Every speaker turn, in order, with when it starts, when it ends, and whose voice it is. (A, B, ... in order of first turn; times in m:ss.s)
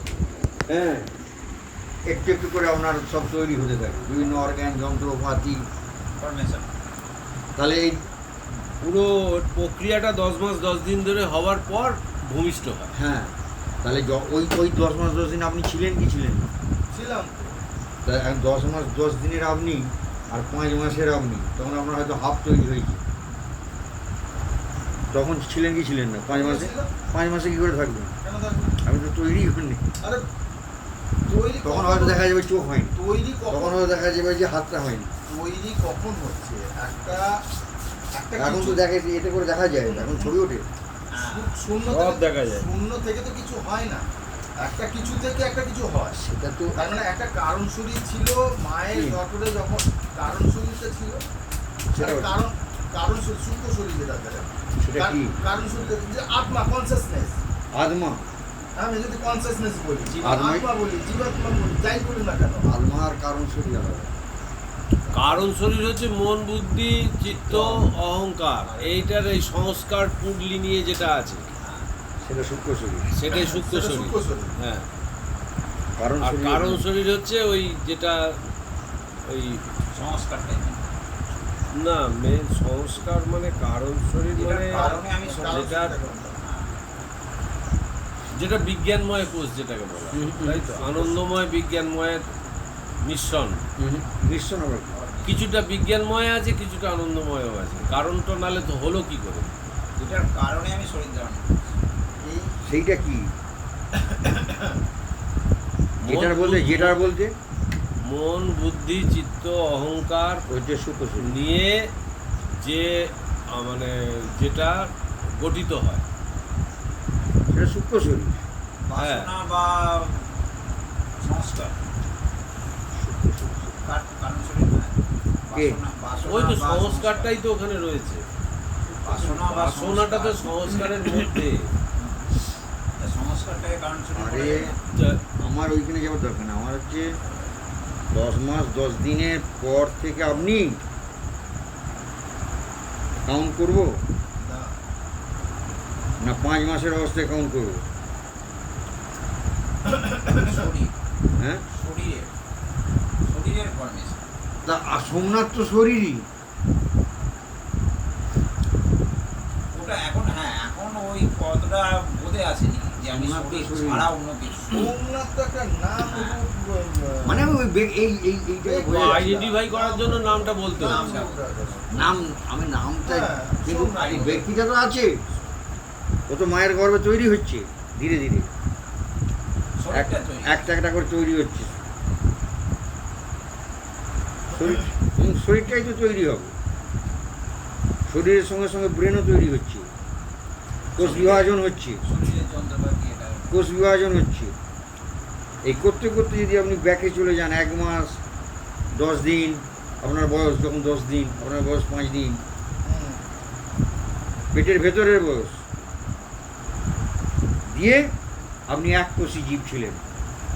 0:00.7-0:01.1 A
0:02.1-0:05.6 A
0:06.2-0:06.7 B
0:07.6-0:08.0 A
0:08.8-0:12.9 C
0:12.9-0:16.5 A
0:16.9-0:17.6 D
0:18.0-0:23.0 A
0:25.1-0:28.2 A
0:26.3-0:26.9 D
0:28.2-0:28.8 D
0:28.8-0:29.9 A
0:31.2-0:32.2 D
0:31.6-0:33.0 A
0:32.9-0:33.8 D
0:33.5-0:35.1 A
0:35.3-0:37.4 D
0:38.1-0:38.8 D
0:38.4-0:40.6 A
0:39.8-0:40.3 D
0:41.1-0:41.6 B
0:41.2-0:44.0 D
0:41.8-0:42.7 C
0:44.6-0:46.2 D
0:46.1-0:46.8 A
0:46.7-0:51.2 D
0:48.9-0:49.2 A
0:51.9-0:52.4 A
0:52.0-0:57.4 D
0:54.8-0:55.3 A
0:57.7-0:58.3 A
0:58.8-1:02.7 D
1:00.2-1:00.7 A
1:02.6-1:04.1 A
1:05.1-1:05.5 D
1:05.1-1:11.5 C
1:08.7-1:09.1 B
1:11.6-1:11.8 B
1:12.2-1:13.1 A
1:13.1-1:14.9 C
1:13.3-1:14.5 D
1:16.0-1:16.8 A
1:16.2-1:18.2 C
1:19.3-1:19.6 C
1:19.9-1:20.8 B
1:21.7-1:24.9 C
1:24.3-1:25.8 B
1:24.7-1:26.4 D
1:25.4-1:25.9 C
1:26.4-1:26.7 B
1:28.4-1:32.2 C
1:30.1-1:31.2 A
1:33.0-1:33.6 C
1:33.8-1:35.0 A
1:34.9-1:35.5 B
1:35.2-1:39.5 C
1:40.0-1:41.7 B
1:42.3-1:43.3 A
1:44.1-1:44.6 D
1:46.0-1:47.3 A
1:46.0-1:47.0 C
1:48.0-1:50.4 C
1:50.5-1:51.3 A
1:51.2-1:51.8 C
1:52.6-1:52.9 C
1:53.5-1:56.0 C
1:57.5-1:58.4 A
1:58.9-2:00.2 B
1:59.0-1:59.3 C
2:01.2-2:01.7 B
2:02.9-2:03.8 A
2:03.8-2:05.0 B
2:05.5-2:07.3 B
2:05.5-2:05.8 A
2:06.2-2:08.2 C
2:09.0-2:11.1 B
2:09.3-2:11.7 C
2:12.0-2:12.3 B
2:13.0-2:14.8 B
2:14.1-2:14.7 A
2:14.9-2:15.2 C
2:15.4-2:17.0 A
2:18.1-2:20.8 A
2:23.2-2:24.0 A
2:24.4-2:24.7 D
2:26.2-2:27.8 A
2:30.2-2:30.9 B
2:31.4-2:31.6 A
2:31.7-2:32.3 B
2:33.2-2:34.2 B
2:34.6-2:36.3 A
2:39.7-2:44.9 B
2:43.1-2:44.1 A
2:44.7-2:47.4 D
2:46.0-2:46.4 B
2:47.2-2:49.3 A
2:48.6-2:52.1 D
2:48.9-2:51.2 C
2:50.7-2:51.4 B
2:51.9-2:55.2 A
2:53.0-2:54.4 D
2:54.0-2:54.4 B
2:56.3-2:58.5 A
2:59.8-3:00.7 B
2:59.9-3:01.8 A
3:04.5-3:06.5 A
3:08.1-3:09.9 A
3:11.0-3:12.0 A
3:11.0-3:13.6 B
3:13.5-3:14.5 A
3:15.6-3:18.2 A
3:18.9-3:22.4 A
3:22.8-3:23.2 D
3:24.5-3:25.6 A
3:27.6-3:28.1 A
3:28.7-3:30.0 A